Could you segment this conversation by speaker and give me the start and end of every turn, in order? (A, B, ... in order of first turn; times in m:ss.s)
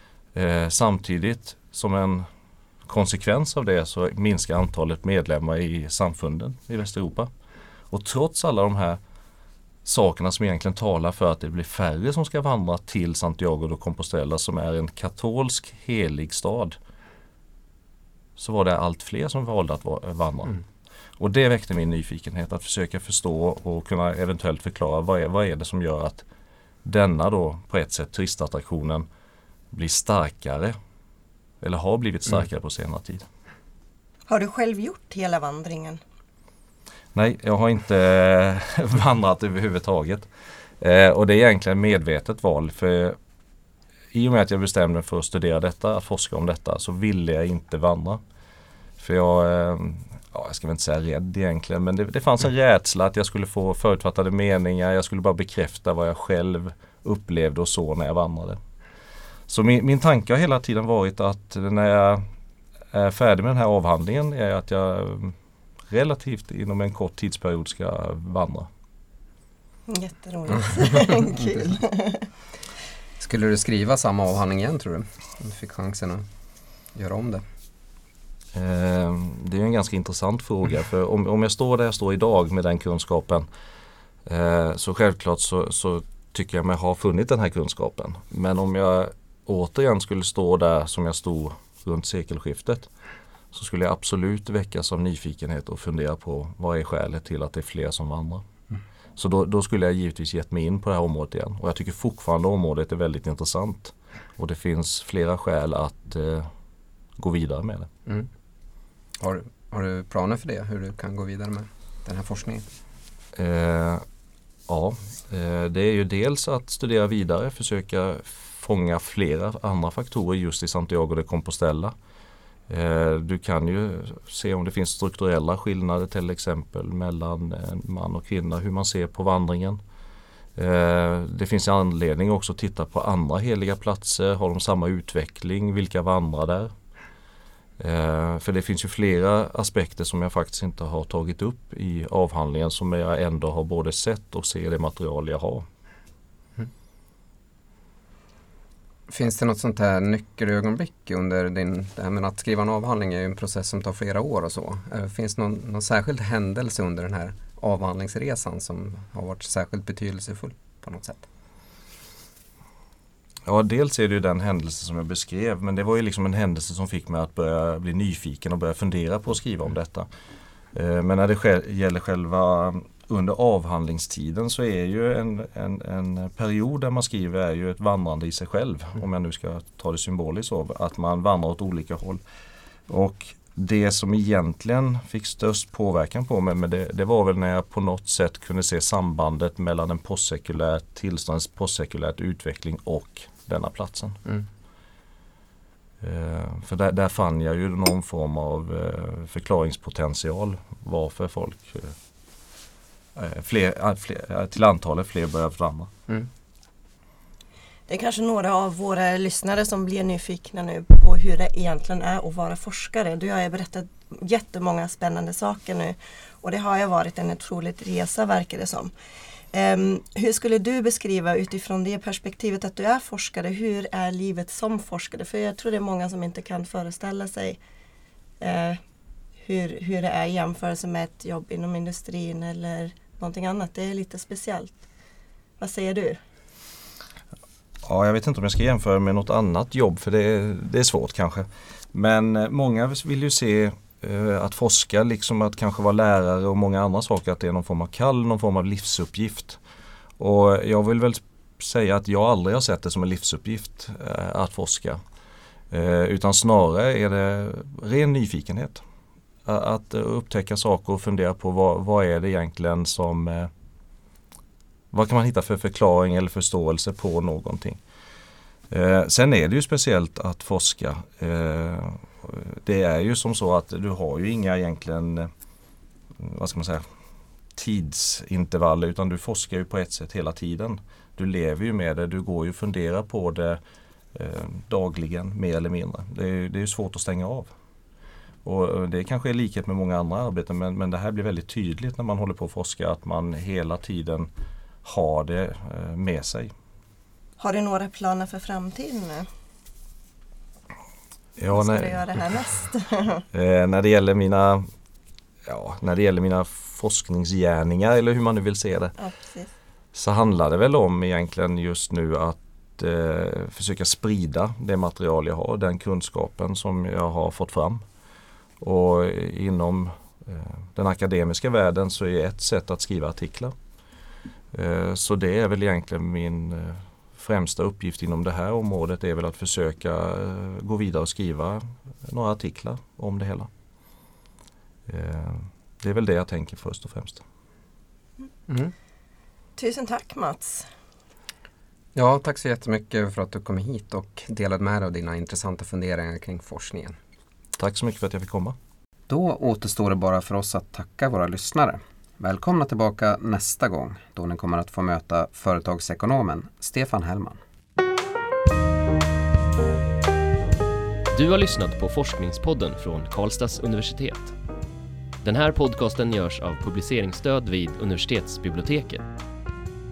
0:00.3-0:02.2 A
0:02.8-0:07.3 A
0:07.9-0:09.0 A
0:09.8-0:16.8 A
0:18.4-0:20.6 A
0:21.2-0:26.2 A
0:26.8-0:29.1 A
0:29.7-0:30.7 A
0:31.6-0:33.2 A
0:34.3-0:36.0 B
0:37.1-0:40.3 A
0:40.8-0:43.2 A
0:44.1-0:48.2 A
0:49.0-0:58.6 A
0:59.5-1:02.2 A
1:02.9-1:05.3 A
1:05.9-1:08.7 A
1:09.9-1:12.3 B
1:13.2-1:16.2 C
1:16.9-1:17.4 C
1:18.5-1:23.5 A
1:24.2-1:32.9 A
1:33.5-1:38.4 A
1:39.2-1:46.5 A
1:47.2-1:47.9 A
1:49.2-1:52.6 C
1:53.3-1:54.0 A
1:54.7-2:01.9 A
2:02.7-2:09.8 A
2:10.6-2:16.7 A
2:17.8-2:25.6 A
2:29.1-2:41.3 C
2:43.4-2:50.1 A
2:50.7-3:02.2 A
3:02.9-3:14.2 A
3:16.0-3:21.9 A
3:23.1-3:25.9 A
3:27.9-3:38.9 B
3:39.5-3:47.6 B
3:48.4-3:48.8 B
3:49.4-3:54.8 B
3:55.6-3:56.2 B
3:57.8-4:09.6 A
4:10.2-4:15.0 A
4:15.7-4:18.8 A
4:19.4-4:23.5 A
4:24.9-4:27.8 A
4:28.7-4:35.3 A
4:36.2-4:36.8 A
4:37.5-4:43.6 A
4:44.1-4:47.5 A
4:48.4-4:54.3 A
4:54.8-4:56.5 A
4:57.4-4:59.3 B
5:01.4-5:02.0 A
5:01.5-5:03.2 B
5:03.3-5:04.6 A
5:05.5-5:08.9 A
5:09.0-5:09.5 B
5:09.9-5:17.8 A
5:18.6-5:23.5 A
5:24.5-5:33.5 A
5:34.9-5:37.2 A
5:39.6-5:40.7 B
5:41.9-5:47.0 C
5:47.6-5:48.6 A
5:49.1-5:57.4 C
6:01.1-6:04.3 D
6:05.2-6:09.1 D